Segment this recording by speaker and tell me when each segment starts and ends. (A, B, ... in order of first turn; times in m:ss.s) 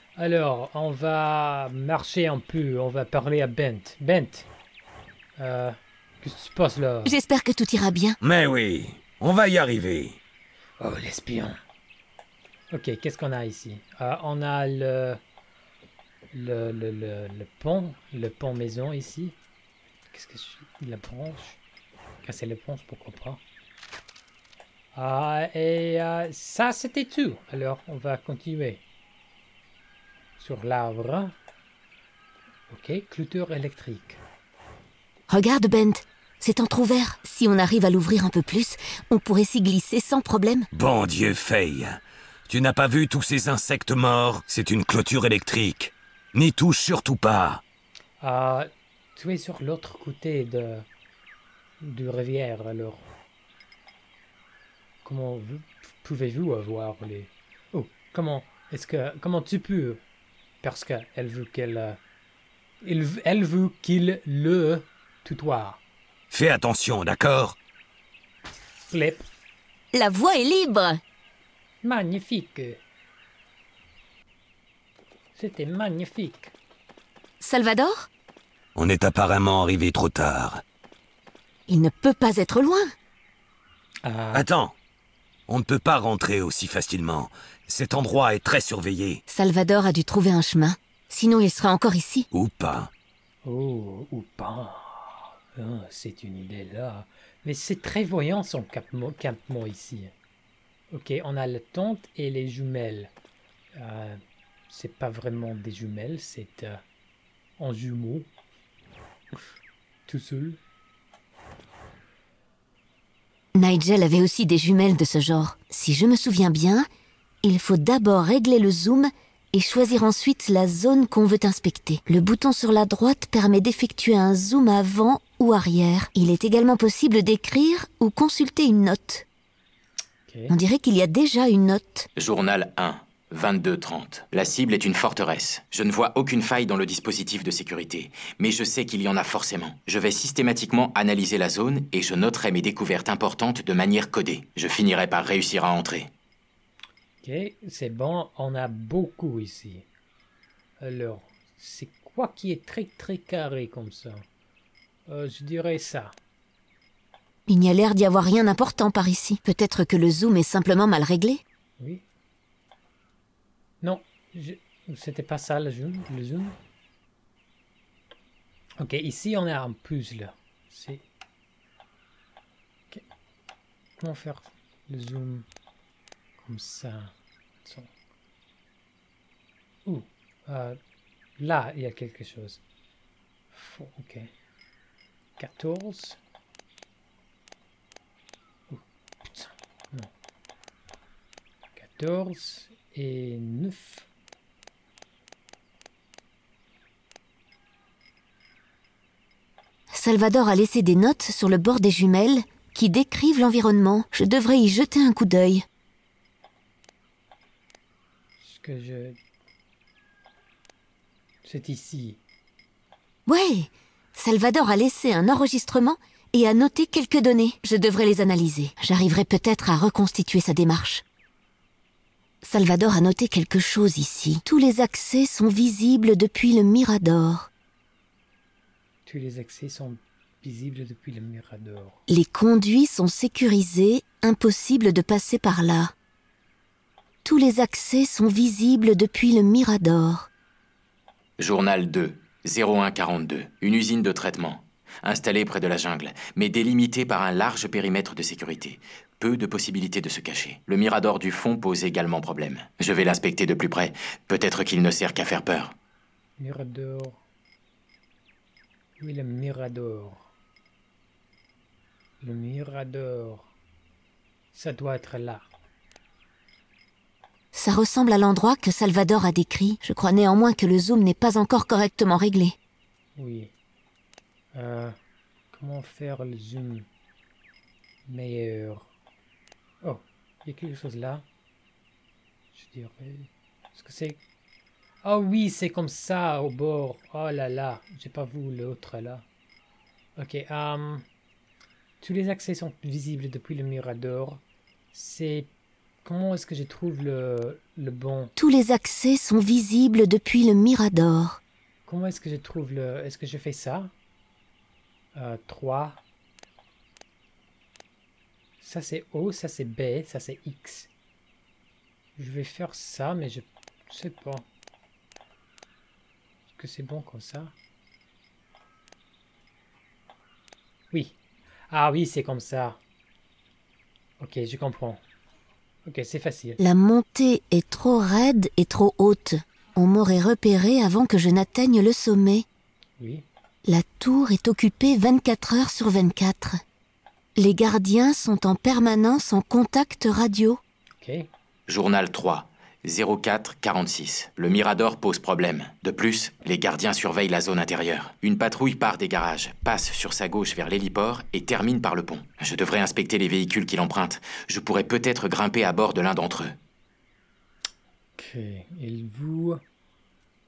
0:00.2-0:04.5 A
0:05.4-0:07.2 A
0:07.0-0:08.2 B
0:08.2-0:10.2 C
0:10.8-0:11.6 A
0:12.7-0:15.2 A
0:16.3-0:19.4 A
0:20.1-0:21.6 A
0:22.2-0:23.4 A
0:24.9-0:28.8 A
0:30.4-0:31.3 A
0:32.7-0:34.2 A
0:35.3-0:40.7 B
0:40.7-0:47.6 C
0:48.2-0:50.8 A
0:51.8-0:53.1 A
0:55.0-1:00.0 A
1:00.6-1:02.0 A
1:02.8-1:05.8 A
1:06.3-1:07.6 C
1:08.9-1:09.2 A
1:09.9-1:11.0 B
1:11.8-1:12.8 A
1:15.4-1:16.5 A
1:17.4-1:18.1 B
1:18.8-1:20.6 C
1:21.7-1:22.9 B
1:24.0-1:24.5 A
1:24.3-1:24.7 C
1:25.5-1:29.2 C
1:29.3-1:32.3 B
1:32.3-1:32.9 C
1:33.4-1:40.1 A
1:40.9-1:43.1 A
1:43.7-1:46.8 A
1:47.6-1:48.3 A
1:50.1-1:50.6 A
1:53.6-1:56.9 B
1:57.4-2:09.3 B
2:10.3-2:10.6 A
2:10.5-2:12.1 B
2:12.2-2:26.1 D
2:27.2-2:29.9 A
2:30.8-2:34.2 A
2:35.1-2:36.2 A
2:37.5-2:41.4 B
2:41.8-2:42.0 A
2:43.8-2:46.6 A
2:48.8-2:51.0 A
2:54.0-2:55.4 A
2:56.4-2:57.1 A
2:57.6-2:57.9 A
2:59.8-3:00.8 A
3:01.4-3:02.6 A
3:03.5-3:04.3 A
3:05.4-3:06.2 A
3:08.7-3:10.1 A
3:11.8-3:14.1 A
3:19.9-3:25.6 B
3:28.4-3:29.2 A
3:31.4-3:32.2 A
3:33.3-3:41.0 B
3:42.4-3:47.5 B
3:49.1-3:52.0 A
3:52.1-3:55.9 B
3:57.2-4:00.3 B
4:01.4-4:15.8 D
4:16.4-4:17.2 A
4:19.0-4:20.3 A
4:22.2-4:23.5 A
4:24.5-4:25.5 A
4:27.5-4:32.6 B
4:33.2-4:33.5 A
4:34.5-4:35.0 A
4:35.5-4:36.9 A
4:38.1-4:38.9 A
4:39.8-4:41.2 A
4:42.5-4:44.2 A
4:45.0-4:49.2 A
4:50.2-4:51.0 A
4:52.0-4:54.4 A
4:54.9-4:55.5 A
4:56.0-4:58.3 A
4:58.4-5:01.4 B
5:01.9-5:03.9 A
5:05.2-5:06.0 A
5:08.6-5:10.9 A
5:12.2-5:14.5 A
5:16.5-5:17.5 A
5:20.9-5:21.2 A
5:21.7-5:22.8 A
5:24.2-5:25.0 A
5:25.8-5:26.6 A
5:26.6-5:32.4 B
5:33.0-5:33.3 A
5:33.6-5:36.6 B
5:37.4-5:40.6 B
5:41.0-5:41.3 A
5:41.7-5:56.5 D
5:58.2-5:59.6 A